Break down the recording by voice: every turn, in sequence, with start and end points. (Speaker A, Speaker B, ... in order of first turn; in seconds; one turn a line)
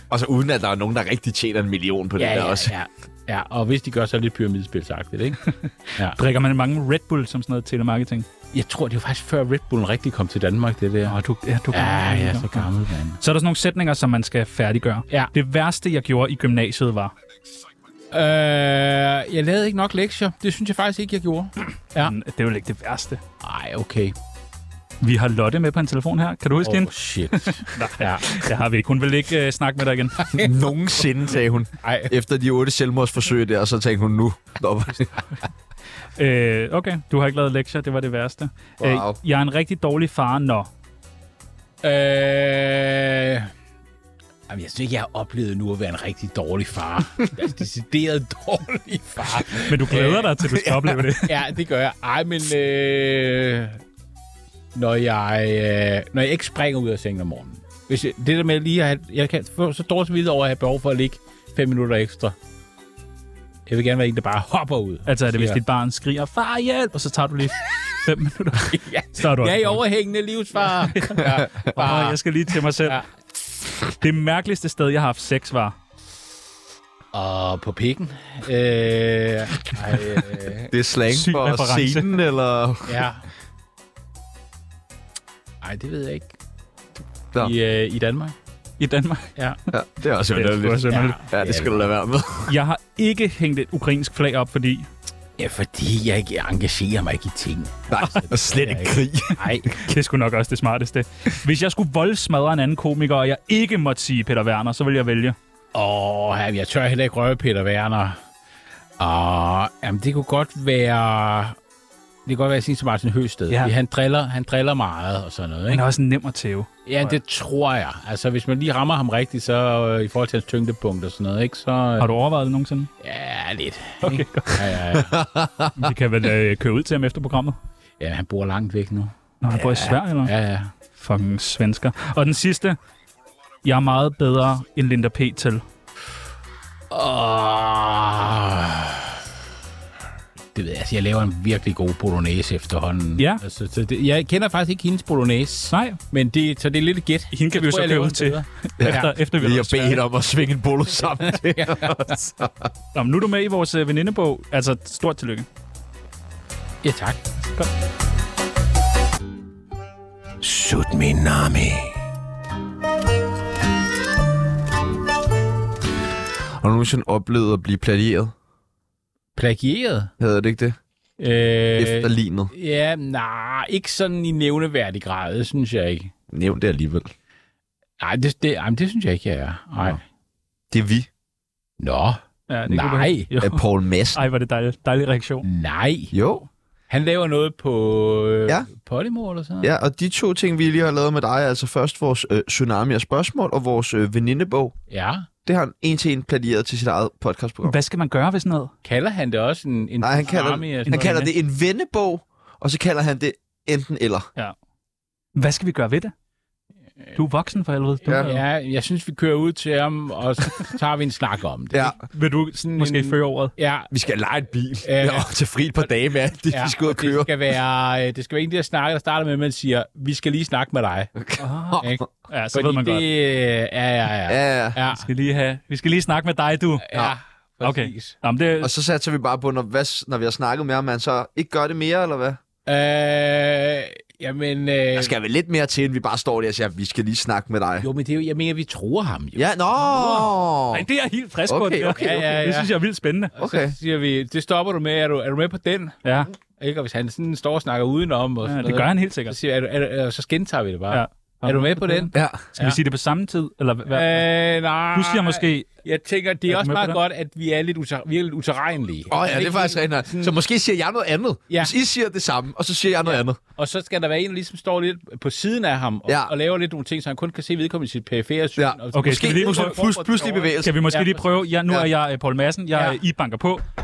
Speaker A: 0.1-2.7
Speaker B: 2.2-6.2
Speaker C: 5.5-8.3
Speaker B: 8.5-11.2
Speaker C: 11.1-17.1
Speaker B: 11.7-13.2
Speaker B: 18.1-22.1
Speaker C: 22.0-23.2
Speaker B: 23.4-24.1
Speaker C: 25.0-30.3
Speaker B: 26.6-28.3
Speaker A: 30.3-35.1
Speaker B: 31.8-32.1
Speaker C: 36.2-40.7
Speaker A: 38.8-39.2
Speaker B: 41.8-43.5
Speaker B: 44.5-50.3
Speaker C: 49.5-51.5
Speaker A: 50.5-51.0
Speaker B: 51.2-53.8
Speaker B: 54.7-62.4
Speaker B: 63.7-65.6
Speaker C: 65.1-69.8
Speaker B: 68.7-72.2
Speaker C: 70.8-73.0
Speaker B: 72.8-73.1
Speaker C: 73.9-75.8
Speaker B: 77.1-80.7
Speaker A: 80.7-83.1
Speaker C: 81.1-82.2
Speaker B: 82.9-83.3
Speaker B: 85.6-86.3
Speaker B: 87.4-88.3
Speaker C: 88.8-89.3
Speaker A: 89.7-92.6
Speaker C: 90.3-91.2
Speaker B: 90.9-91.9
Speaker C: 92.5-94.9
Speaker B: 95.4-99.7
Speaker A: 97.9-99.4
Speaker C: 99.7-105.4
Speaker B: 105.7-108.2
Speaker B: 109.0-111.6
Speaker B: 112.3-115.8
Speaker C: 115.7-117.2
Speaker B: 116.9-122.1
Speaker C: 122.0-122.9
Speaker B: 123.0-125.2
Speaker C: 124.0-124.7
Speaker A: 125.0-125.9
Speaker C: 125.8-127.6
Speaker B: 128.0-130.7
Speaker C: 129.4-130.3
Speaker C: 131.0-132.8
Speaker C: 133.6-135.6
Speaker B: 136.9-139.3
Speaker B: 140.6-149.1
Speaker C: 143.2-143.4
Speaker C: 145.7-146.0
Speaker C: 147.3-150.0
Speaker A: 148.8-152.7
Speaker B: 151.5-152.2
Speaker C: 152.9-155.5
Speaker B: 156.8-157.7
Speaker B: 160.4-161.9
Speaker A: 166.6-168.3
Speaker B: 169.4-170.1
Speaker A: 170.2-170.8
Speaker B: 171.2-176.1
Speaker A: 171.8-172.5
Speaker A: 176.3-177.1
Speaker B: 178.0-180.0
Speaker A: 180.7-181.1
Speaker B: 181.8-183.3
Speaker C: 182.5-183.6
Speaker A: 183.4-184.2
Speaker C: 184.1-185.5
Speaker B: 185.4-186.1
Speaker A: 186.1-186.5
Speaker B: 186.9-189.7
Speaker A: 189.6-194.8
Speaker B: 194.9-195.3
Speaker A: 195.4-197.8
Speaker C: 197.6-198.7
Speaker B: 198.8-201.1
Speaker A: 200.0-204.3
Speaker C: 200.9-201.3
Speaker C: 205.3-206.1
Speaker C: 207.2-208.4
Speaker B: 208.1-212.0
Speaker A: 211.7-212.0
Speaker C: 212.1-213.5
Speaker B: 212.5-213.9
Speaker A: 213.9-217.3
Speaker B: 214.8-215.3
Speaker B: 216.5-221.1
Speaker A: 221.2-222.0
Speaker C: 221.4-223.1
Speaker B: 221.8-225.1
Speaker A: 224.3-224.8
Speaker C: 224.9-226.8
Speaker B: 226.8-228.2
Speaker C: 227.6-228.7
Speaker A: 228.6-232.4
Speaker B: 232.7-235.1
Speaker A: 234.9-237.9
Speaker B: 237.8-240.2
Speaker A: 239.3-240.9
Speaker C: 240.7-243.3
Speaker A: 241.5-242.3
Speaker B: 242.0-242.7
Speaker B: 243.3-246.0
Speaker A: 243.4-243.8
Speaker C: 246.0-246.3
Speaker B: 246.6-252.8
Speaker C: 248.4-249.3
Speaker C: 250.9-254.3
Speaker A: 252.1-252.4
Speaker B: 253.9-260.4
Speaker C: 254.9-255.7
Speaker C: 256.5-257.0
Speaker A: 259.1-263.4
Speaker B: 263.0-271.3
Speaker A: 266.1-266.3
Speaker A: 268.6-270.8
Speaker C: 268.9-269.8
Speaker C: 270.6-273.6